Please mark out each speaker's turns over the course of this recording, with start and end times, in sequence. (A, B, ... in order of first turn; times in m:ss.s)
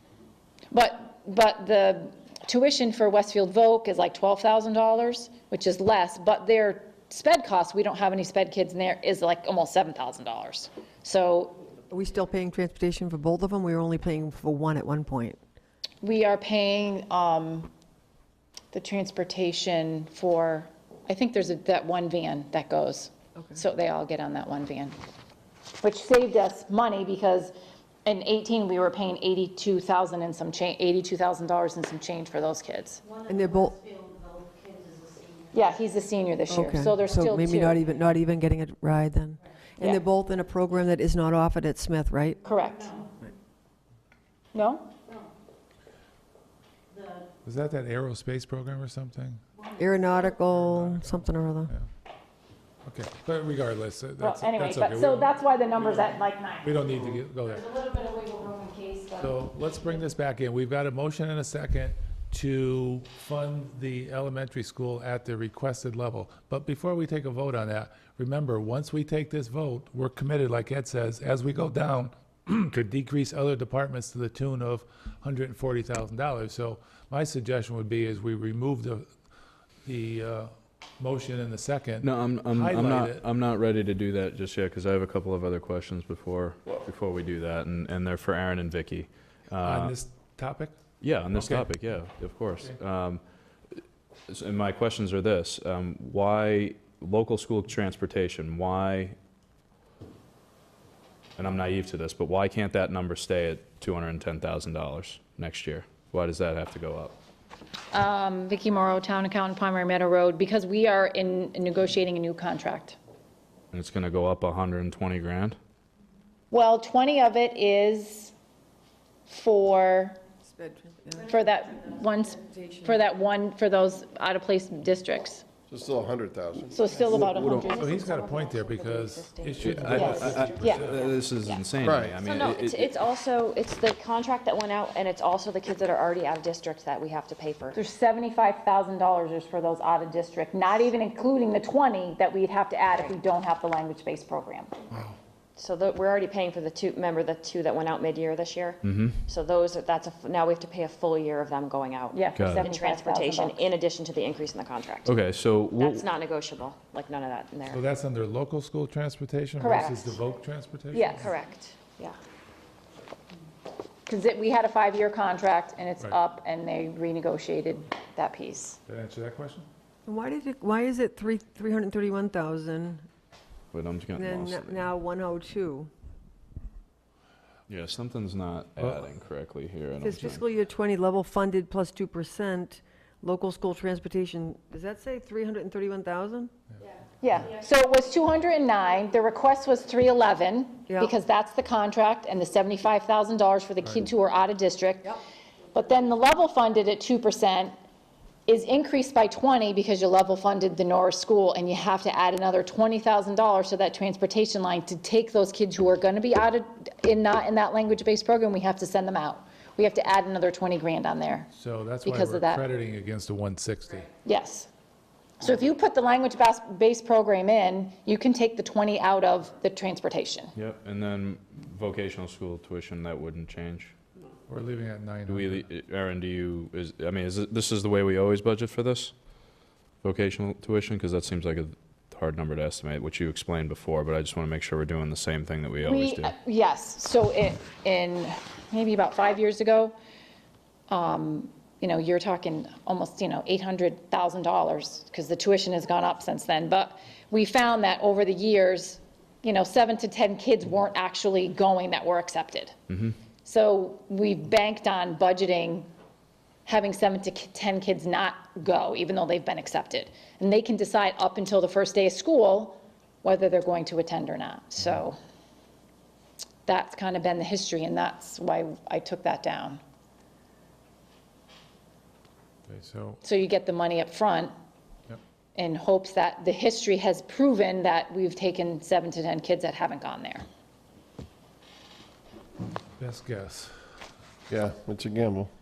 0:00.7-0:11.6 A
0:11.9-0:15.4 B
0:16.0-0:17.7 A
0:18.7-0:25.0 A
0:25.8-0:27.5 A
0:28.0-0:33.0 A
0:33.3-0:33.8 B
0:35.5-0:37.8 A
0:36.5-0:42.4 B
0:42.4-0:43.1 A
0:44.5-0:44.9 A
0:47.4-0:49.4 C
0:49.8-0:51.7 B
0:50.5-0:51.9 C
0:52.9-0:55.3 C
0:54.2-0:59.4 A
0:56.6-0:57.6 C
0:59.2-1:19.1 C
1:19.8-1:23.2 C
1:22.0-1:30.0 D
1:29.6-1:30.7 C
1:31.0-1:33.2 D
1:31.3-1:31.8 C
1:34.3-1:39.2 D
1:41.4-1:47.2 D
1:47.9-1:53.0 A
1:53.7-1:55.6 D
1:56.5-1:58.3 A
1:59.3-2:00.2 A
2:00.4-2:01.3 B
2:01.2-2:05.4 A
2:02.6-2:03.0 B
2:05.7-2:06.8 E
2:06.7-2:08.0 A
2:07.0-2:10.9 F
2:07.1-2:11.1 C
2:07.2-2:07.8 D
2:09.6-2:13.0 D
2:09.9-2:10.9 A
2:11.8-2:12.2 E
2:12.2-2:17.8 F
2:17.8-2:24.7 A
2:25.6-2:35.1 F
2:28.8-2:29.2 D
2:32.1-2:33.7 A
2:32.4-2:32.7 D
2:35.0-2:36.1 D
2:35.8-2:37.8 F
2:37.7-2:41.3 C
2:39.6-2:40.2 A
2:40.9-2:41.3 A
2:41.1-2:42.2 F
2:44.1-2:48.8 A
2:48.9-2:49.7 C
2:50.1-2:53.1 B
2:53.7-2:54.9 D
2:54.2-2:55.9 B
2:57.7-3:00.5 D
2:58.8-2:59.1 C
3:00.0-3:06.5 B
3:07.2-3:15.2 A
3:15.7-3:17.7 A
3:18.5-3:31.5 A
3:31.5-3:34.1 C
3:32.0-3:32.6 A
3:34.2-3:34.7 A
3:35.4-3:40.5 A
3:40.6-3:43.9 D
3:44.5-3:45.7 C
3:45.3-3:49.1 D
3:50.0-3:56.4 D
3:55.8-3:59.9 A
4:00.9-4:12.8 A
4:13.4-4:15.9 A
4:16.7-4:25.2 A
4:26.7-4:29.8 A
4:32.7-4:33.2 C
4:33.2-4:34.5 A
4:35.6-4:40.4 A
4:43.0-4:43.8 C
4:44.5-4:45.5 E